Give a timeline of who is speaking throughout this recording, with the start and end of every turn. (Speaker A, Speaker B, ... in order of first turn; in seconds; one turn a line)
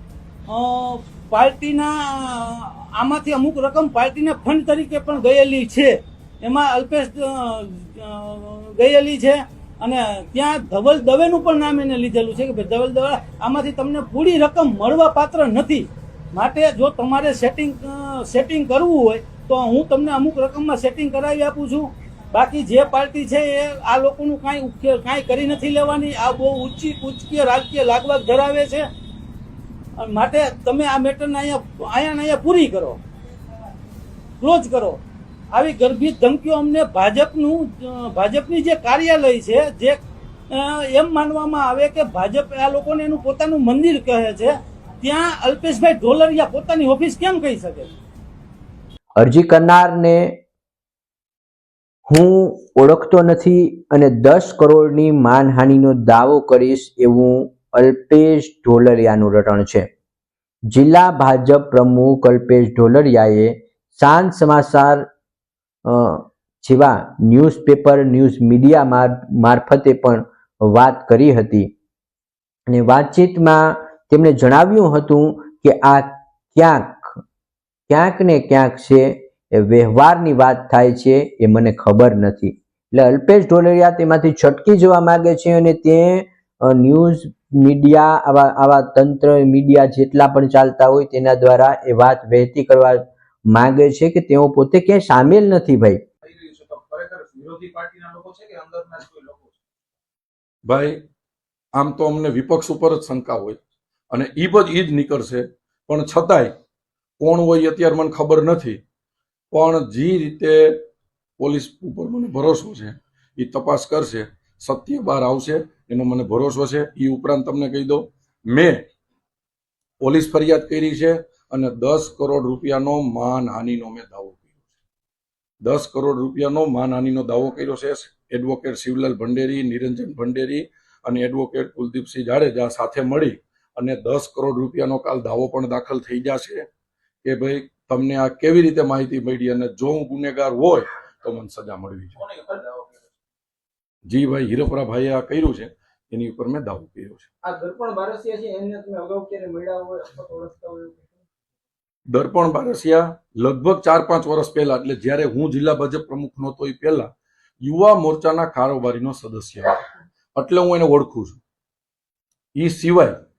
Speaker A: 0.5-28.9
Speaker A: 30.0-33.0
Speaker A: 34.4-35.0
Speaker A: 35.5-40.0
Speaker A: 40.5-47.9
Speaker B: 49.2-50.4
Speaker B: 52.1-59.9
Speaker B: 60.7-65.0
Speaker B: 65.8-71.7
Speaker B: 72.7-77.2
Speaker B: 77.9-96.0
Speaker C: 96.3-99.5
Speaker D: 100.7-101.0
Speaker D: 101.8-103.6
Speaker D: 104.1-106.5
Speaker D: 107.2-108.8
Speaker D: 109.5-110.8
Speaker D: 111.4-118.9
Speaker D: 120.0-124.5
Speaker D: 125.6-136.7
Speaker D: 137.2-142.8
Speaker C: 142.4-142.7
Speaker D: 144.1-147.3
Speaker C: 147.5-151.0
Speaker D: 152.1-157.1
Speaker D: 157.6-159.8
Speaker D: 160.3-161.4
Speaker D: 162.5-163.2